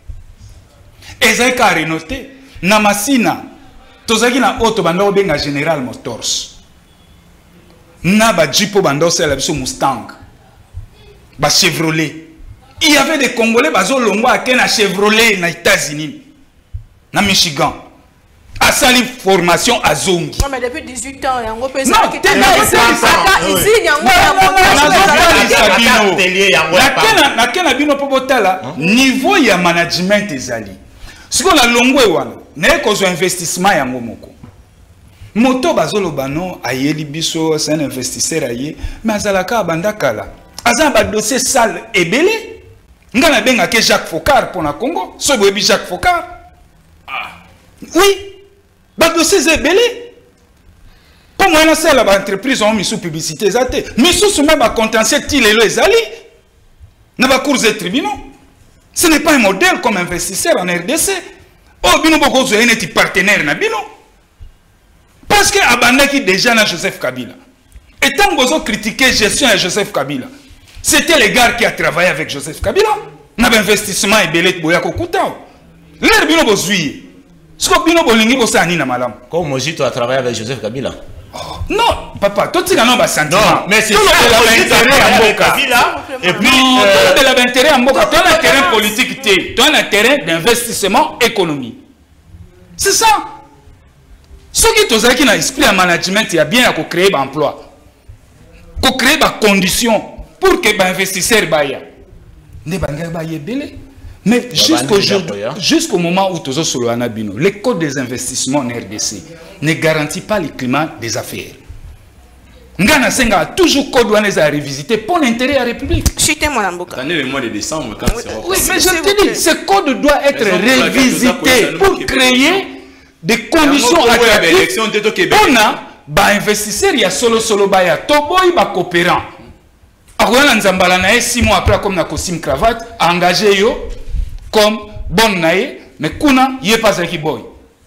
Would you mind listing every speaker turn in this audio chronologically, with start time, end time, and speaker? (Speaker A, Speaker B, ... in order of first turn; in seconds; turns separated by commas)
Speaker A: 1.2-3.4, Speaker A: 4.1-6.6, Speaker A: 8.0-10.2, Speaker A: 11.4-16.3, Speaker A: 17.1-17.8, Speaker A: 18.6-20.4, Speaker B: 20.4-25.8, Speaker A: 21.9-23.4, Speaker C: 22.3-23.7, Speaker A: 24.0-30.8, Speaker C: 24.6-27.2, Speaker A: 31.3-34.4, Speaker A: 35.3-46.4, Speaker A: 47.9-48.4, Speaker A: 49.0-50.1, Speaker A: 51.4-56.2, Speaker A: 57.2-58.3, Speaker A: 58.9-61.2, Speaker A: 61.8-63.9, Speaker A: 65.3-67.4, Speaker A: 68.0-70.3, Speaker A: 70.8-75.5, Speaker A: 76.0-79.2, Speaker C: 79.3-81.0, Speaker A: 81.3-85.6, Speaker C: 83.3-87.3, Speaker B: 85.4-86.8, Speaker A: 86.4-91.8, Speaker B: 87.9-89.0, Speaker A: 92.8-93.3, Speaker A: 94.5-97.6, Speaker A: 98.8-101.8, Speaker A: 102.7-111.6, Speaker C: 104.5-105.6, Speaker A: 112.8-116.1, Speaker B: 116.2-117.0, Speaker D: 116.9-118.8, Speaker B: 118.1-119.4, Speaker A: 118.5-124.7, Speaker D: 120.3-122.7, Speaker D: 123.6-125.8, Speaker A: 125.3-129.3, Speaker A: 130.2-133.9, Speaker A: 134.5-137.5